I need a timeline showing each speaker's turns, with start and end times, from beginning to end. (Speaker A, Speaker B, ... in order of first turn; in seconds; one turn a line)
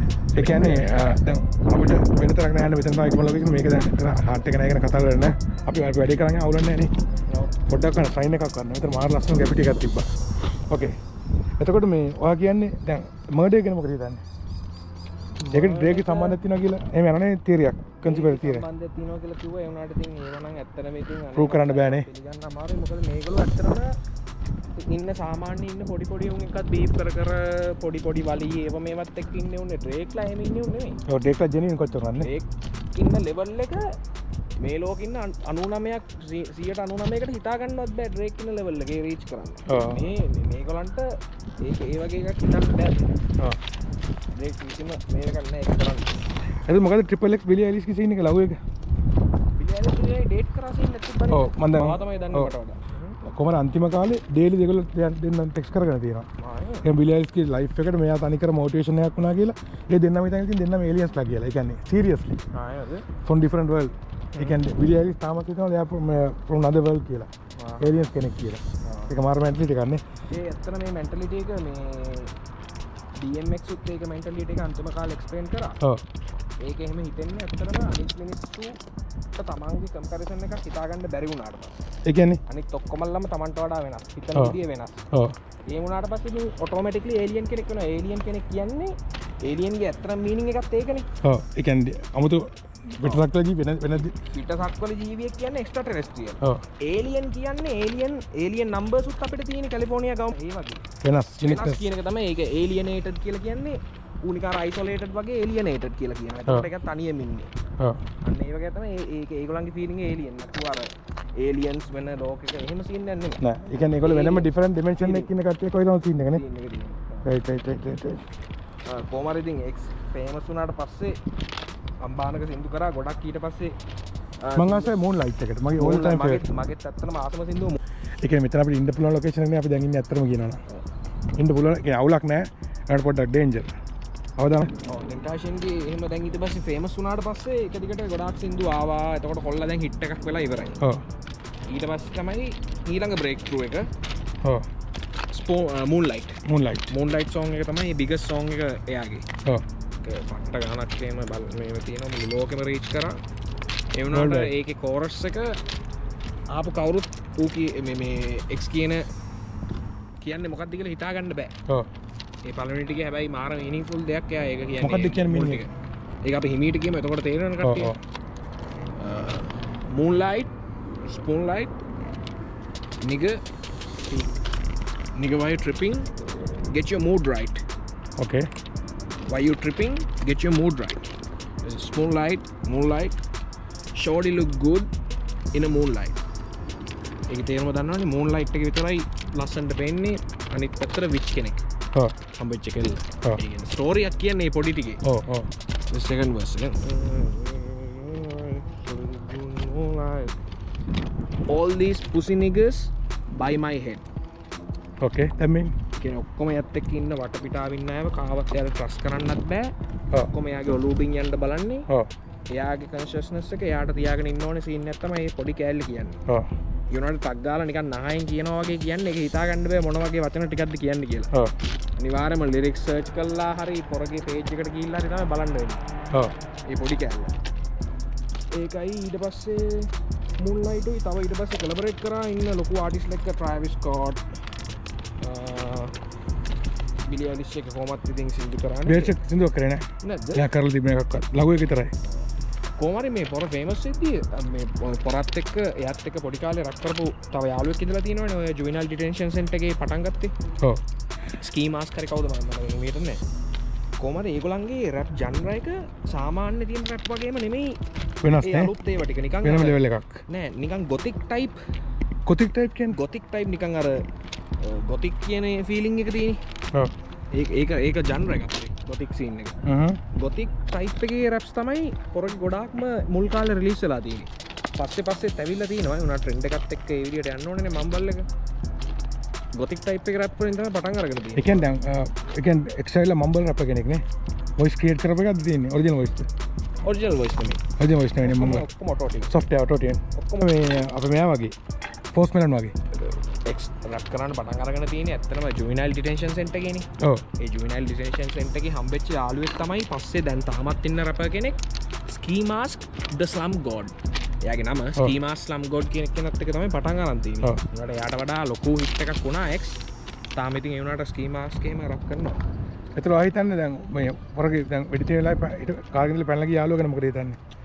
Speaker A: 0.3-6.9
Speaker B: 0.4-0.9
Speaker A: 7.7-10.1
Speaker A: 10.7-11.0
Speaker A: 11.6-14.2
Speaker B: 15.4-16.4
Speaker A: 15.5-18.6
Speaker B: 18.1-23.9
Speaker A: 21.4-22.1
Speaker B: 24.8-31.0
Speaker A: 31.1-32.3
Speaker B: 32.2-34.0
Speaker B: 34.6-41.1
Speaker A: 39.7-40.1
Speaker B: 41.6-43.0
Speaker B: 44.3-46.2
Speaker A: 46.6-48.6
Speaker B: 49.5-53.2
Speaker A: 51.3-52.5
Speaker A: 53.2-56.3
Speaker B: 56.4-56.9
Speaker A: 56.8-62.4
Speaker B: 62.5-63.1
Speaker A: 63.2-67.3
Speaker B: 64.3-64.7
Speaker B: 67.6-68.1
Speaker A: 67.8-70.0
Speaker B: 68.8-69.1
Speaker B: 70.3-72.3
Speaker B: 73.2-75.8
Speaker B: 76.6-78.8
Speaker B: 79.3-81.8
Speaker A: 82.0-82.4
Speaker B: 82.5-85.0
Speaker B: 85.7-91.1
Speaker A: 91.2-94.2
Speaker B: 94.2-100.8
Speaker A: 101.0-101.9
Speaker B: 101.4-107.5
Speaker B: 108.2-113.4
Speaker A: 113.4-116.4
Speaker B: 114.0-115.3
Speaker B: 116.3-117.3
Speaker A: 117.2-118.2
Speaker B: 118.8-121.2
Speaker B: 122.0-123.8
Speaker B: 124.4-125.0
Speaker A: 124.5-126.5
Speaker B: 125.8-127.8
Speaker A: 128.2-130.6
Speaker A: 131.3-133.7
Speaker A: 134.4-134.7
Speaker B: 134.8-140.8
Speaker B: 141.7-143.9
Speaker B: 145.3-149.2
Speaker A: 146.4-146.9
Speaker B: 150.0-153.2
Speaker B: 153.9-155.6
Speaker A: 154.1-154.5
Speaker B: 156.5-159.1
Speaker B: 160.2-161.5
Speaker B: 162.4-165.7
Speaker A: 164.8-165.7
Speaker B: 166.2-167.9
Speaker A: 167.6-168.0
Speaker B: 169.0-170.5
Speaker B: 171.0-171.8
Speaker B: 173.0-173.4
Speaker B: 174.1-174.3
Speaker B: 175.2-176.1
Speaker B: 176.7-177.6
Speaker A: 178.2-178.5
Speaker B: 179.3-181.0
Speaker B: 181.6-183.2
Speaker B: 183.9-184.9
Speaker B: 185.5-186.2
Speaker B: 187.3-191.6
Speaker B: 192.4-195.0
Speaker A: 195.1-195.5
Speaker B: 195.9-200.4
Speaker B: 201.5-204.0
Speaker A: 205.0-205.8
Speaker B: 206.0-209.7
Speaker B: 210.3-211.9
Speaker B: 212.5-216.2
Speaker B: 216.9-221.3
Speaker B: 222.0-225.8
Speaker B: 226.7-227.3
Speaker B: 228.5-234.2
Speaker B: 235.2-235.9
Speaker B: 237.0-239.2
Speaker A: 238.8-241.9
Speaker B: 240.0-240.5
Speaker B: 242.8-250.3
Speaker B: 251.4-253.2
Speaker B: 254.0-257.8
Speaker A: 258.2-258.7
Speaker B: 258.4-261.6
Speaker A: 259.4-260.2
Speaker A: 262.3-263.0
Speaker B: 262.9-264.1
Speaker B: 264.6-266.4
Speaker B: 267.3-269.6
Speaker A: 269.6-270.0
Speaker B: 270.1-278.3
Speaker B: 279.6-281.7
Speaker A: 281.4-284.0
Speaker A: 284.6-286.3
Speaker B: 286.8-287.6
Speaker A: 287.8-288.7
Speaker B: 288.2-289.4
Speaker A: 289.3-291.6
Speaker B: 290.1-290.6
Speaker A: 292.1-292.7
Speaker B: 292.9-309.8
Speaker A: 297.0-297.2
Speaker B: 310.4-312.4
Speaker A: 313.0-317.4